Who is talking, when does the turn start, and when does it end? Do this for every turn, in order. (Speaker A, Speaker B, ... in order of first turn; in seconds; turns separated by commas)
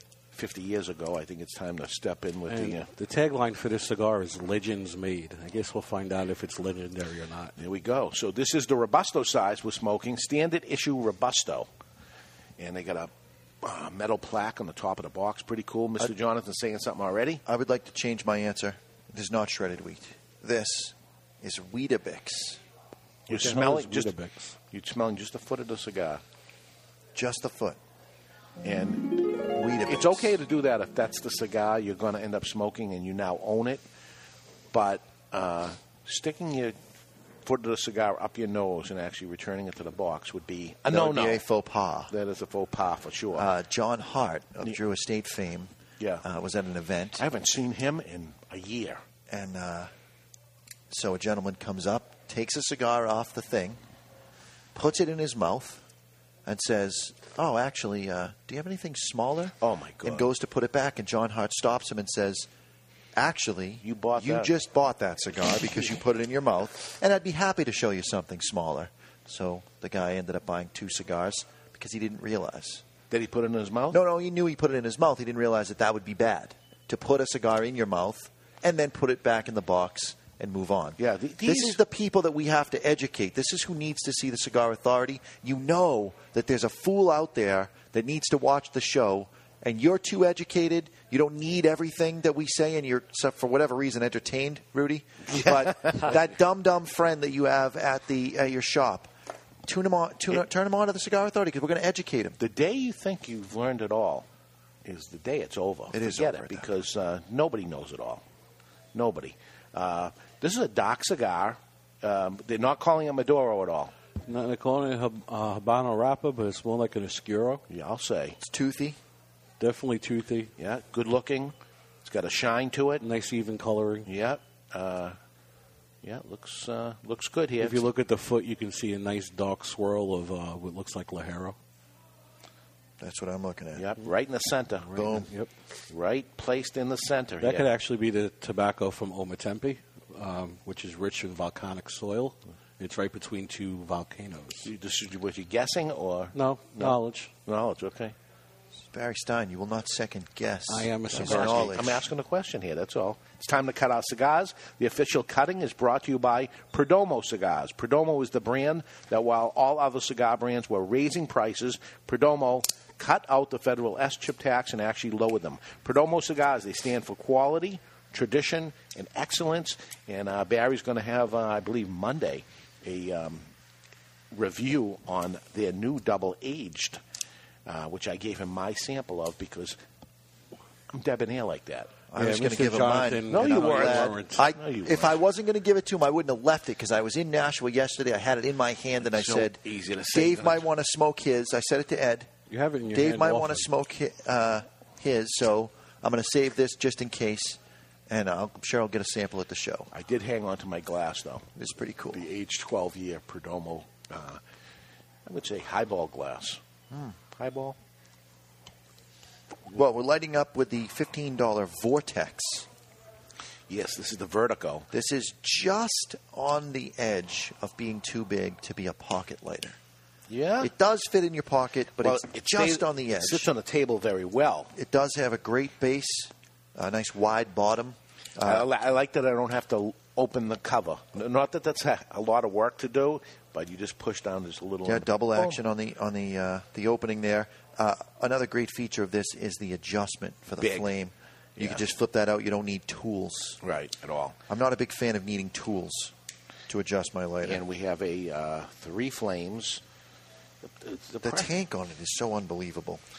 Speaker A: 0.3-2.9, Speaker B: 2.5-7.5, Speaker A: 7.6-11.7, Speaker A: 12.6-13.1, Speaker A: 13.6-17.4, Speaker C: 17.4-22.6, Speaker A: 23.3-24.1, Speaker B: 23.3-24.5, Speaker A: 24.7-26.2, Speaker C: 27.1-27.8, Speaker A: 28.6-33.8, Speaker C: 29.5-30.4, Speaker A: 34.7-36.8, Speaker A: 37.4-41.4, Speaker C: 40.9-42.1, Speaker A: 42.1-43.5, Speaker C: 43.3-47.2, Speaker A: 46.0-46.2, Speaker A: 47.2-49.0, Speaker C: 49.3-49.9, Speaker C: 50.9-53.8, Speaker C: 54.7-55.8, Speaker C: 56.5-62.5, Speaker A: 59.6-60.3, Speaker C: 63.1-72.8, Speaker A: 63.8-64.5, Speaker A: 73.1-74.0, Speaker C: 73.9-99.1, Speaker A: 81.0-81.8, Speaker A: 95.4-96.1, Speaker C: 99.7-102.4, Speaker A: 102.4-104.2, Speaker A: 104.8-108.2, Speaker C: 105.9-106.7, Speaker A: 108.9-113.9, Speaker B: 114.3-117.6, Speaker A: 117.7-118.4, Speaker C: 118.4-119.0, Speaker B: 119.6-120.5, Speaker A: 120.6-123.0, Speaker B: 123.0-124.1, Speaker A: 124.0-125.2, Speaker A: 126.0-127.8, Speaker B: 127.6-131.6, Speaker C: 133.0-133.9, Speaker A: 133.8-135.1, Speaker B: 134.9-135.5, Speaker C: 134.9-135.3, Speaker A: 135.9-137.7, Speaker B: 137.4-144.7, Speaker A: 144.6-148.1, Speaker B: 146.3-147.3, Speaker C: 148.9-152.1, Speaker B: 150.7-151.7, Speaker A: 151.2-173.4, Speaker A: 174.3-177.0, Speaker A: 177.7-179.8, Speaker A: 180.9-182.0, Speaker C: 182.1-189.6, Speaker B: 182.2-184.4, Speaker A: 183.3-185.2, Speaker A: 189.0-190.7, Speaker C: 190.1-192.3, Speaker B: 192.5-193.7, Speaker C: 192.9-199.9, Speaker A: 199.9-201.4, Speaker C: 201.6-202.2, Speaker A: 202.1-204.4, Speaker A: 205.2-206.6, Speaker C: 206.9-207.2, Speaker A: 207.3-207.8, Speaker C: 209.7-212.7, Speaker A: 213.7-214.9, Speaker C: 214.9-219.8, Speaker A: 220.3-220.7, Speaker C: 220.6-223.5, Speaker A: 222.0-224.7, Speaker C: 224.7-228.7, Speaker A: 228.4-235.6, Speaker C: 234.8-243.6, Speaker A: 240.6-240.9, Speaker A: 241.6-241.8, Speaker A: 243.6-244.4, Speaker C: 244.5-246.1, Speaker C: 246.7-247.6, Speaker A: 247.4-249.8, Speaker A: 250.6-251.5, Speaker C: 251.2-253.0